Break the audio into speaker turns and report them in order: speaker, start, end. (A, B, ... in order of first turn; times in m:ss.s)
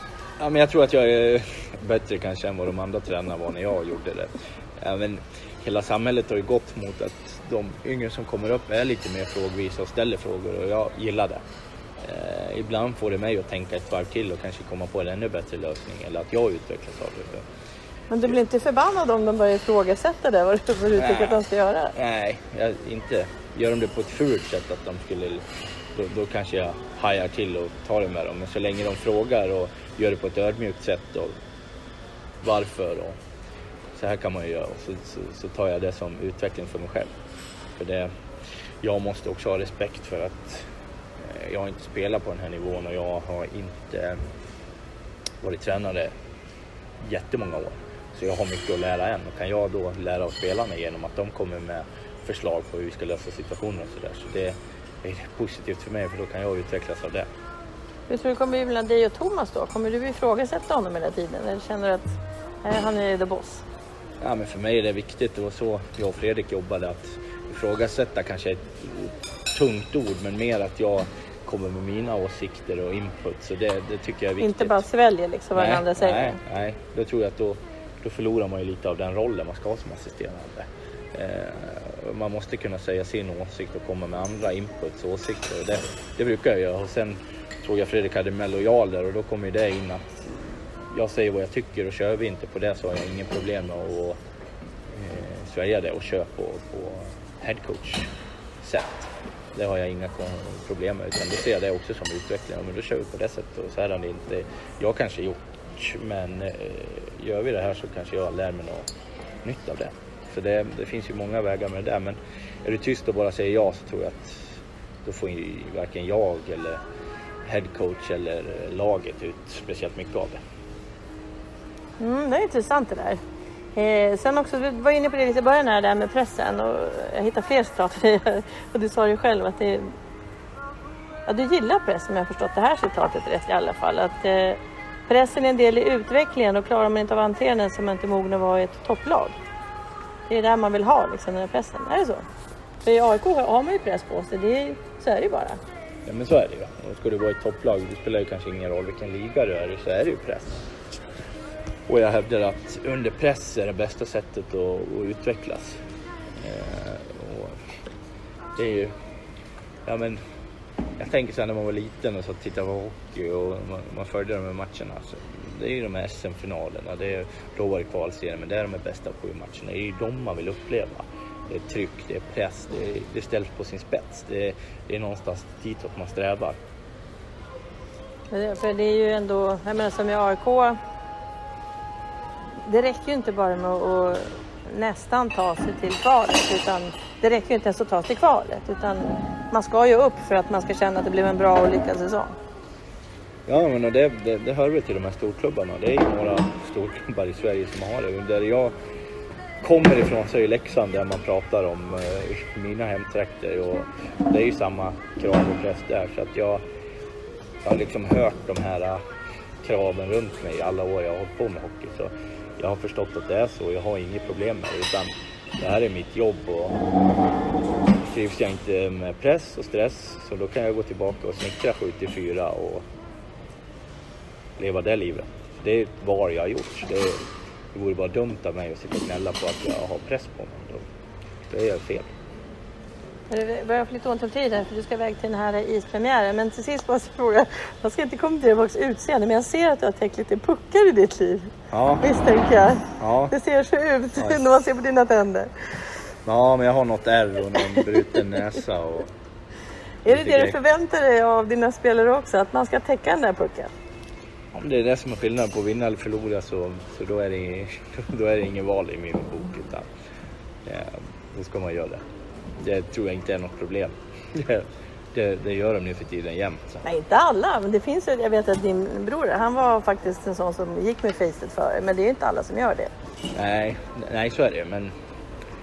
0:00.4-0:11.4 A
0:12.0-0:17.5 A
0:18.1-0:21.9 B
0:21.0-0:21.4 A
0:21.9-0:25.4 A
0:26.0-0:31.3 A
0:32.4-0:33.2 A
0:34.0-0:37.1 A
0:37.8-0:38.1 A
0:38.8-0:44.2 A
0:45.4-0:46.1 A
0:47.0-0:57.3 A
0:58.1-1:03.6 B
1:04.2-1:14.8 A
1:14.4-1:16.4 B
1:15.6-1:34.2 A
1:34.9-1:38.1 A
1:38.6-1:48.9 A
1:49.4-1:56.8 A
1:57.4-2:00.4 A
2:02.0-2:03.2 B
2:03.8-2:09.9 B
2:11.3-2:19.4 B
2:20.3-2:22.3 B
2:22.8-2:25.6 B
2:26.1-2:30.7 A
2:31.9-2:35.8 A
2:36.4-2:37.7 A
2:38.6-2:38.9 A
2:39.9-2:40.2 A
2:41.0-2:56.6 A
2:58.3-3:00.8 B
3:02.6-3:12.4 B
3:13.5-3:18.7 A
3:19.6-3:26.6 A
3:27.6-3:29.0 A
3:29.6-3:36.8 A
3:38.1-3:42.9 A
3:44.6-3:47.2 A
3:47.7-3:50.9 A
3:51.5-3:52.1 A
3:53.3-4:05.5 B
4:01.7-4:02.0 A
4:03.0-4:03.3 A
4:06.3-4:09.1 A
4:10.1-4:13.7 B
4:10.1-4:10.6 A
4:14.5-4:19.9 A
4:20.6-4:22.0 A
4:22.6-4:26.8 A
4:26.8-4:32.9 B
4:33.3-4:34.9 A